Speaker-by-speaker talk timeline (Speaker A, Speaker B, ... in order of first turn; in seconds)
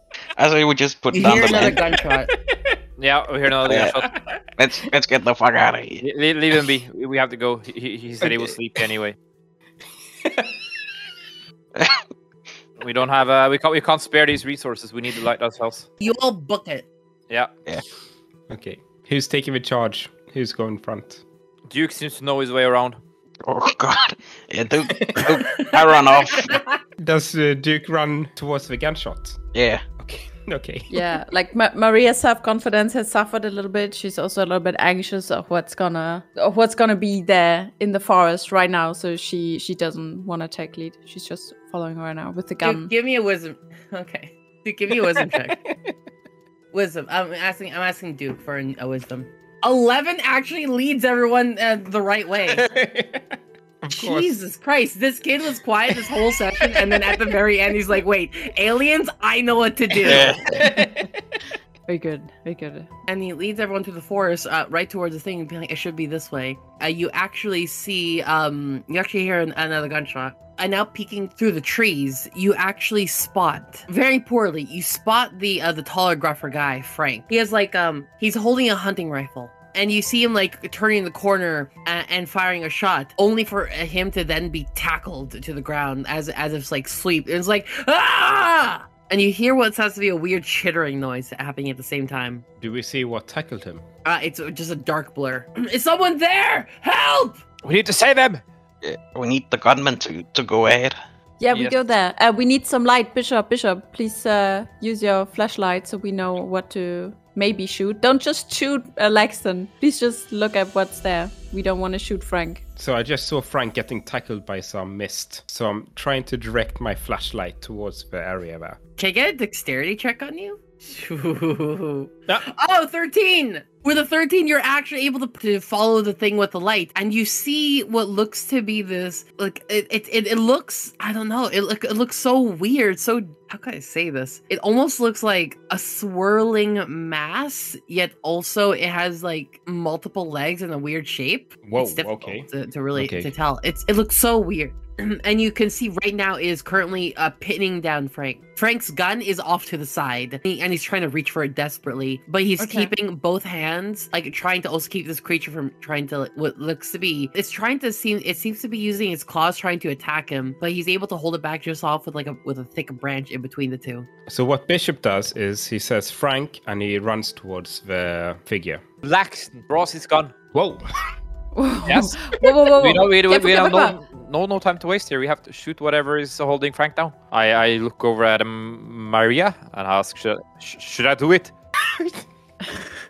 Speaker A: 0.4-1.8, 3.6-4.0, 4.6-6.0, 11.7-12.0, 23.4-26.6, 29.5-29.8, 60.0-60.6, 98.8-101.0
Speaker B: 1.1-2.3, 16.0-16.9, 42.6-45.6, 46.7-52.7, 53.9-60.6, 63.1-92.4, 94.0-97.4, 119.0-164.1
Speaker C: 2.4-2.8, 10.2-10.6, 18.5-21.2, 24.9-25.5, 27.0-29.4, 30.0-31.1, 44.9-45.9, 52.5-54.4, 55.9-58.0, 60.0-61.4, 92.6-93.8, 112.8-118.8, 141.6-143.3, 164.2-168.8, 170.5-170.8, 181.9-182.2
Speaker D: 3.0-4.1, 6.0-9.2, 12.8-15.9, 21.7-23.0, 97.6-98.4, 101.5-101.8, 169.0-170.3, 171.9-172.2, 172.8-181.5
Speaker E: 30.9-42.9, 60.6-61.1, 61.9-62.9, 101.4-112.6, 152.6-152.9, 171.5-173.9